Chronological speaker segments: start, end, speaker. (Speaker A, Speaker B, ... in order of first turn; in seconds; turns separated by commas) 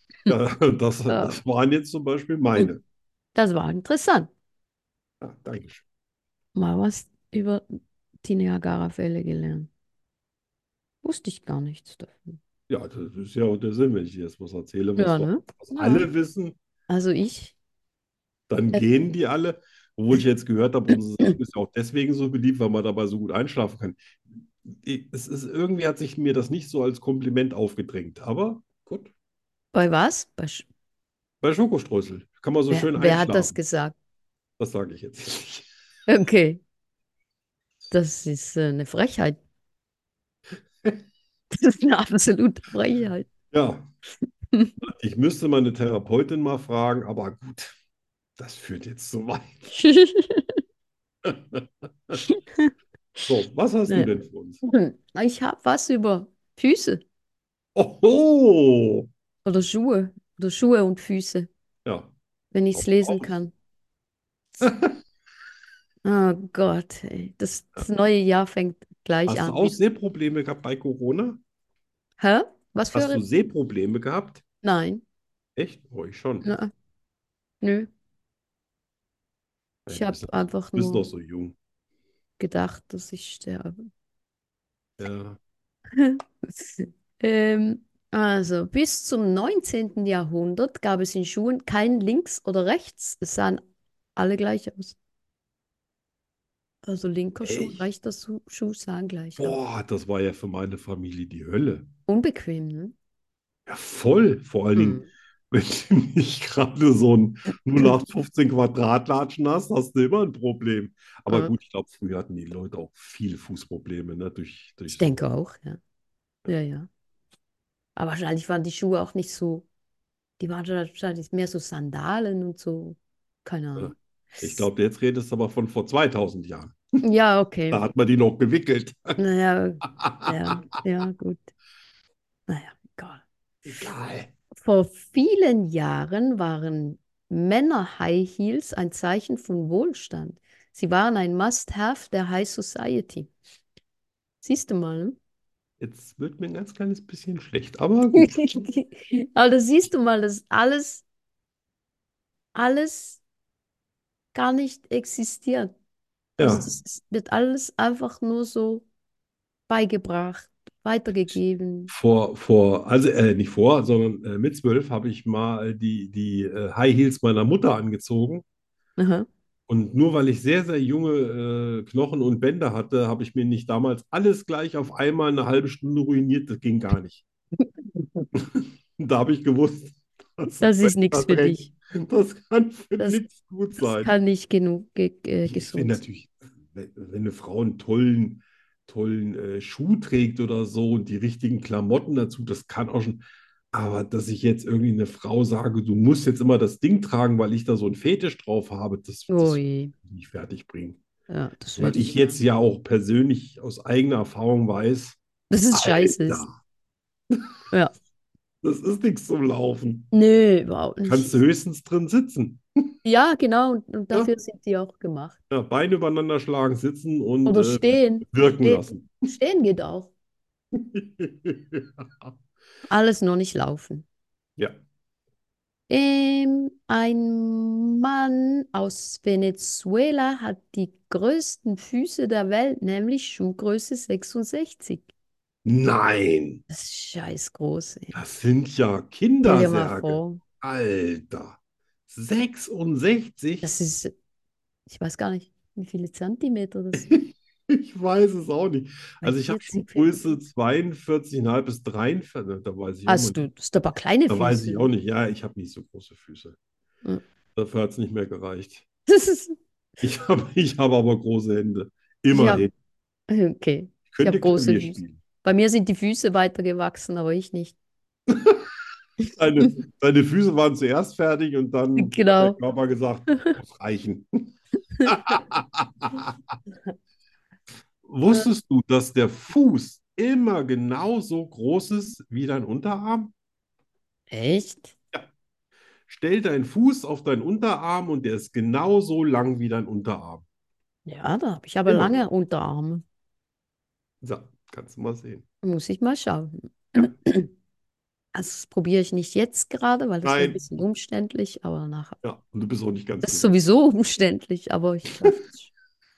Speaker A: 0.3-2.8, Speaker B: 1.1-1.4, Speaker B: 3.4-4.3, Speaker A: 5.2-5.8, Speaker B: 6.5-7.6, Speaker B: 8.2-9.7, Speaker B: 11.0-12.4, Speaker A: 12.7-16.6, Speaker B: 15.0-16.1, Speaker B: 16.9-17.6, Speaker A: 18.5-29.1, Speaker B: 29.7-30.7, Speaker A: 31.4-33.6, Speaker B: 32.7-34.0, Speaker A: 34.6-35.7, Speaker B: 36.1-36.6, Speaker B: 37.9-39.4, Speaker B: 41.5-43.3, Speaker A: 43.5-43.9, Speaker A: 44.8-47.8, Speaker A: 48.4-49.7, Speaker B: 49.7-50.5, Speaker A: 51.2-52.2, Speaker B: 52.2-52.7, Speaker A: 53.3-54.6, Speaker B: 54.6-57.0, Speaker A: 57.8-59.1, Speaker B: 59.5-61.5, Speaker A: 61.9-62.1, Speaker B: 62.5-63.5, Speaker A: 62.7-63.3, Speaker A: 64.6-65.0, Speaker B: 66.0-69.8, Speaker A: 69.3-71.4, Speaker B: 72.2-73.2, Speaker A: 72.9-74.4, Speaker B: 74.6-75.0, Speaker A: 75.6-76.5, Speaker B: 76.4-76.7, Speaker B: 77.6-77.9, Speaker A: 79.9-81.6, Speaker B: 79.9-81.1, Speaker B: 82.4-83.8, Speaker A: 85.0-85.4, Speaker B: 86.0-93.6, Speaker B: 94.2-95.0, Speaker B: 96.8-99.6, Speaker A: 97.4-97.9, Speaker A: 99.4-101.9, Speaker B: 102.1-103.0, Speaker A: 103.7-115.1, Speaker B: 104.8-105.1, Speaker B: 111.3-111.5, Speaker B: 114.9-115.8, Speaker B: 116.5-116.9, Speaker B: 118.0-119.7, Speaker B: 120.4-124.7, Speaker A: 123.8-126.8, Speaker B: 127.0-127.8, Speaker A: 127.7-129.2, Speaker B: 129.2-131.5, Speaker A: 129.9-130.5, Speaker B: 132.5-133.8, Speaker A: 133.7-134.3, Speaker B: 134.6-143.3, Speaker B: 144.4-145.2, Speaker A: 145.8-148.4, Speaker B: 148.2-151.0, Speaker B: 152.6-153.2, Speaker B: 154.3-155.7, Speaker A: 156.4-156.7, Speaker B: 156.4-158.8, Speaker B: 159.7-161.9, Speaker A: 161.9-168.4, Speaker B: 169.0-169.3, Speaker A: 169.7-177.2, Speaker A: 178.3-184.2, Speaker B: 180.6-181.7, Speaker B: 183.0-183.2, Speaker B: 183.8-186.0, Speaker A: 185.5-201.0, Speaker B: 199.3-199.9, Speaker B: 201.3-202.4, Speaker A: 201.8-205.2, Speaker B: 205.5-206.5, Speaker A: 205.7-206.6, Speaker A: 208.6-210.1, Speaker B: 210.1-211.3, Speaker A: 211.1-212.9, Speaker B: 213.0-215.4, Speaker A: 215.5-219.3, Speaker B: 217.4-220.1, Speaker A: 220.7-222.3, Speaker B: 222.9-224.1, Speaker B: 225.9-235.1, Speaker A: 235.7-236.6, Speaker B: 236.7-238.2, Speaker A: 238.1-243.7, Speaker B: 239.4-240.4, Speaker B: 243.6-244.1, Speaker B: 244.9-247.1, Speaker A: 246.9-253.4, Speaker B: 249.2-250.2, Speaker B: 253.1-254.9, Speaker A: 254.3-256.6, Speaker A: 257.6-258.9, Speaker B: 259.1-259.6, Speaker A: 260.0-262.7, Speaker B: 262.3-262.7, Speaker B: 263.3-267.8, Speaker A: 264.1-265.2, Speaker A: 268.3-268.6, Speaker A: 269.4-274.6, Speaker B: 272.0-272.6, Speaker A: 275.1-276.3, Speaker A: 278.1-283.3, Speaker B: 284.3-284.9, Speaker A: 286.1-290.4, Speaker B: 291.1-293.0, Speaker A: 291.9-292.2, Speaker A: 294.2-295.4, Speaker B: 295.6-297.5, Speaker B: 298.3-302.2, Speaker A: 300.2-300.6, Speaker A: 302.2-303.5, Speaker B: 303.2-305.7